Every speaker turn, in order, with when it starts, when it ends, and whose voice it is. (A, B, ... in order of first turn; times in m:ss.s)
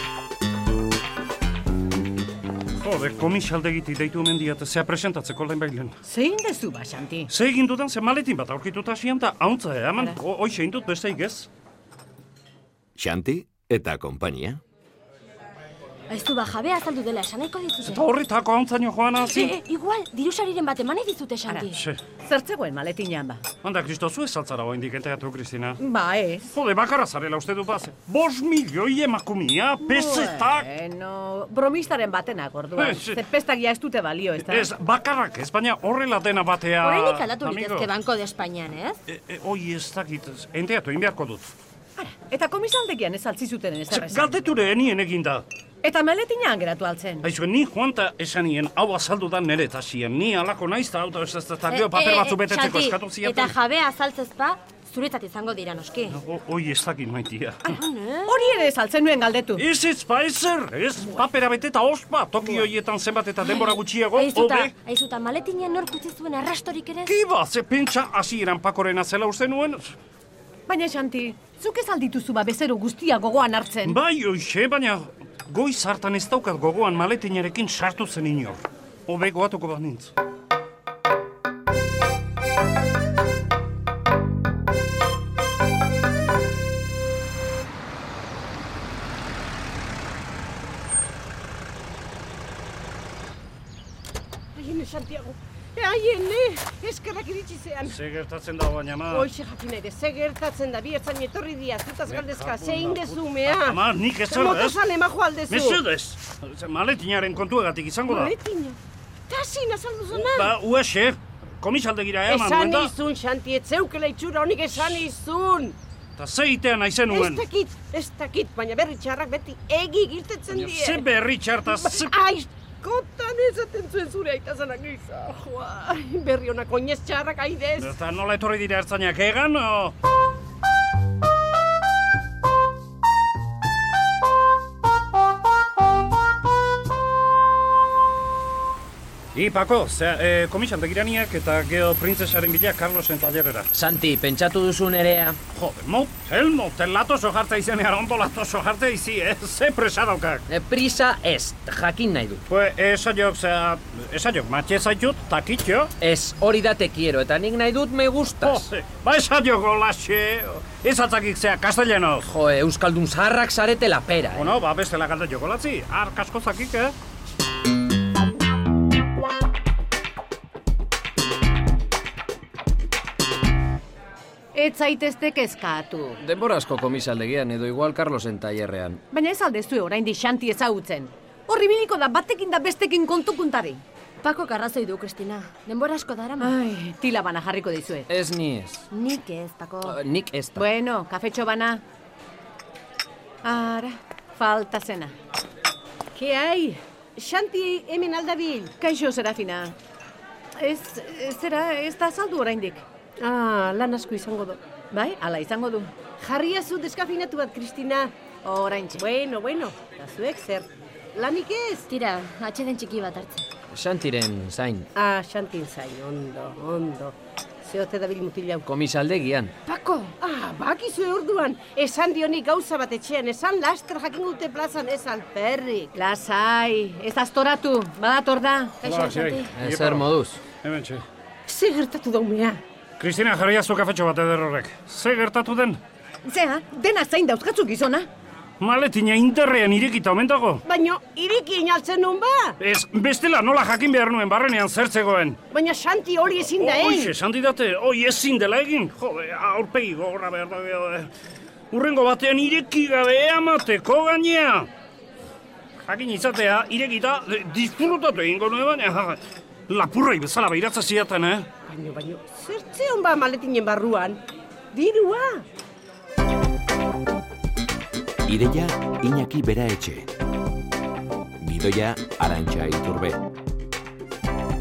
0:02.8-0:05.9 A
0:06.0-0:07.3 B
0:07.3-0:11.5 A
0:13.0-0:14.6 C
0:16.1-0:18.1 D
0:17.8-0:19.6 A
0:19.2-0:21.8 D
0:21.7-0:22.0 A
0:22.2-0:23.4 B
0:23.6-0:25.8 A
0:25.8-0:26.5 B
0:26.5-0:30.7 A
0:29.8-0:34.7 B
0:32.8-0:33.2 A
0:34.4-0:37.9 A
0:36.8-0:39.0 D
0:39.1-0:41.5 A
0:42.0-0:44.3 B
0:43.9-0:45.4 A
0:45.8-0:47.3 B
0:47.2-0:53.5 A
0:51.7-0:56.2 D
0:56.1-0:57.8 A
0:57.6-0:58.5 D
0:58.3-0:59.6 B
0:59.6-1:04.7 A
1:03.4-1:07.1 D
1:07.0-1:10.0 A
1:10.7-1:14.0 B
1:13.8-1:20.1 A
1:34.5-1:38.0 E
1:37.8-1:39.3 A
1:39.1-1:45.8 E
1:42.1-1:44.8 A
1:45.5-1:48.3 A
1:48.1-1:48.8 E
1:49.3-1:50.5 E
1:50.2-1:52.9 A
1:52.3-1:55.8 E
1:56.2-1:57.4 A
1:57.1-2:01.0 E
2:00.5-2:02.2 A
2:01.7-2:07.9 E
2:07.8-2:09.9 A
2:19.3-2:23.7 A
2:23.7-2:25.3 F
2:25.5-2:30.4 A
2:30.5-2:32.3 F
2:32.5-2:35.9 A
2:36.0-2:38.5 F
2:38.4-2:42.3 A
2:42.3-2:44.4 F
2:44.3-2:46.9 A
2:54.5-2:56.2 B
2:56.2-2:59.0 F
2:59.1-3:03.8 B
3:04.2-3:06.6 D
3:06.4-3:08.1 B
3:08.1-3:08.8 F
3:08.9-3:10.0 D
3:10.1-3:10.6 F
3:10.6-3:11.8 B
3:13.4-3:15.1 B
3:16.1-3:18.7 E
3:18.8-3:19.8 B
3:20.6-3:22.8 B
3:23.2-3:24.6 E
3:24.9-3:25.9 B
3:26.2-3:28.1 E
3:28.4-3:29.0 B
3:29.0-3:31.9 E
3:31.9-3:33.4 D
3:33.9-3:34.8 F
3:34.9-3:38.6 E
3:38.7-3:39.5 F
3:39.6-3:40.1 D
3:40.2-3:45.9 E
3:45.9-3:48.8 B
3:48.8-3:49.5 D
3:48.8-3:50.1 A
3:49.6-3:50.4 F
3:50.6-3:51.0 A
3:51.5-3:52.6 E
3:53.0-3:55.8 A
3:56.2-3:58.1 B
3:58.6-4:00.6 A
4:00.6-4:02.6 E
4:02.6-4:05.4 A
4:05.5-4:07.1 E
4:06.4-4:11.1 A
4:11.7-4:14.7 A
4:15.8-4:21.5 A
4:21.7-4:24.2 E
4:24.7-4:25.4 E
4:28.3-4:30.1 C
4:31.4-4:33.2 C